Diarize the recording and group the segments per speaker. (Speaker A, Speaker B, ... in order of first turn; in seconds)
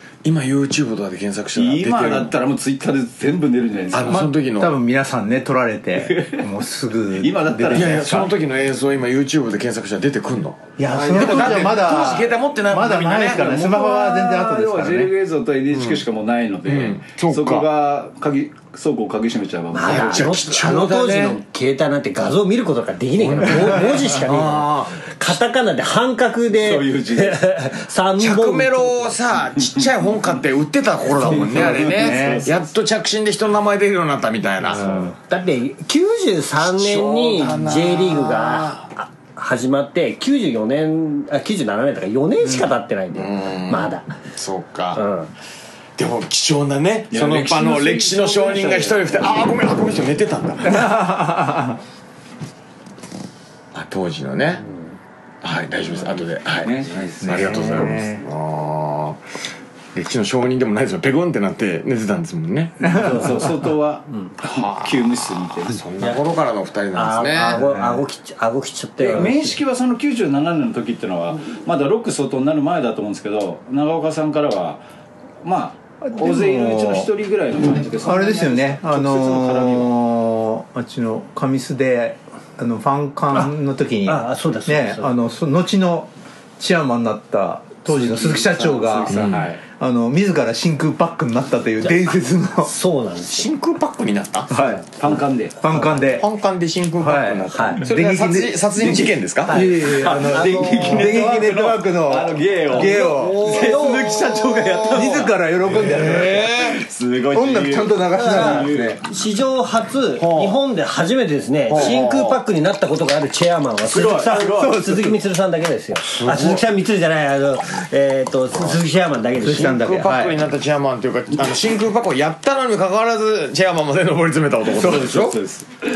Speaker A: 0.2-2.3, 3.9-4.7, 7.7-13.5, 15.7-16.0, 16.6-17.6, 19.8-21.4, 23.2-25.1, 28.2-35.1, 36.6-38.9, 43.1-45.0, 46.0-50.9, 53.7-54.6, 55.4-59.2, 59.9-62.9, 64.4-67.6, 89.1-89.5, 93.3-94.5, 96.0-99.6, 103.6-105.2, 105.7-106.8, 110.2-110.6, 111.7-112.4, 116.0-116.6, 119.5-125.4
Speaker B: 1.5-4.3, 6.0-6.5, 7.1-8.3, 10.9-11.8, 13.2-20.3, 26.5-27.4, 29.5-29.9, 31.1-32.7, 47.1-49.3, 56.6-57.9, 62.9-65.8, 69.0-74.8, 75.4-79.9, 87.9-89.6, 94.9-95.6, 98.8-109.0, 113.9-114.7, 124.7-125.7
Speaker C: 4.0-8.2, 10.8-15.1, 31.7-32.5, 34.6-35.1, 50.6-51.8, 57.2-58.2, 62.8-63.3, 67.3-68.0, 76.0-77.1, 78.0-92.7, 94.5-94.8, 95.6-96.3, 97.0-106.6, 107.3-109.0, 114.3-115.2, 119.4-120.4
Speaker D: 19.7-29.2, 35.2-44.1, 44.9-45.3, 66.9-69.6, 84.0-85.1, 92.6-93.5, 97.5-97.8, 100.2-101.2, 102.7-104.3, 108.1-119.9